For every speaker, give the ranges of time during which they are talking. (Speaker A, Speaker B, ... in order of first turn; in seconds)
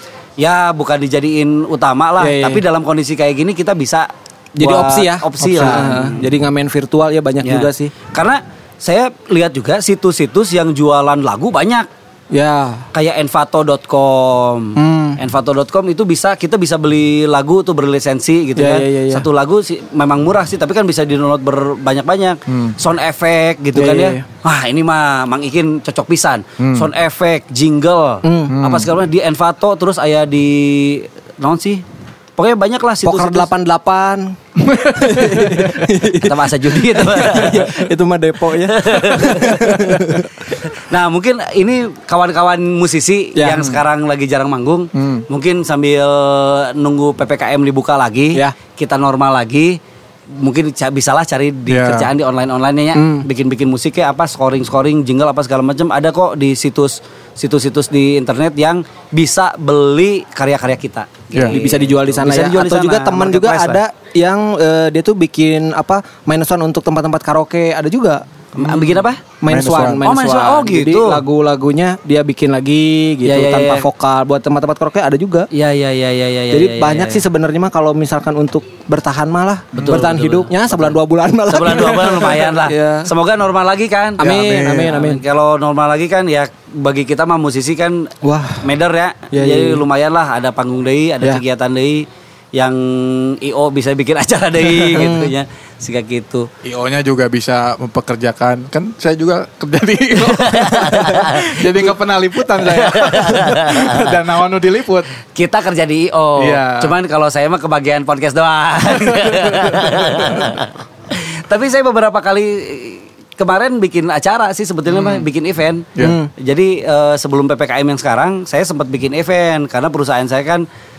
Speaker A: 0.4-6.2, 7.4-11.9, 12.9-31.8, 32.4-33.5, 36.2-37.9, 38.6-49.8, 50.4-63.8, 68.5-69.2, 70.0-71.2, 73.2-73.9, 75.5-77.2, 79.8-80.9, 81.5-84.3, 84.8-96.5, 100.2-101.6, 102.6-104.0, 105.3-120.7
Speaker B: 2.2-2.6, 4.6-7.9, 12.3-12.9, 14.8-15.2, 18.6-19.2, 23.7-24.2, 28.2-28.6, 33.0-40.5, 43.4-43.6, 52.9-53.2, 61.5-68.2, 69.4-75.5, 76.5-83.1, 84.2-85.2, 88.2-88.7, 89.3-89.8, 94.9-95.3, 116.0-116.3
Speaker C: 5.4-6.0, 22.5-22.8, 26.6-26.9, 28.5-28.9, 34.6-35.9, 43.5-43.8, 44.9-45.2, 51.7-52.1, 69.5-70.0, 79.8-80.0, 84.2-84.9, 96.6-105.1, 106.4-106.9, 109.1-110.6, 114.9-115.2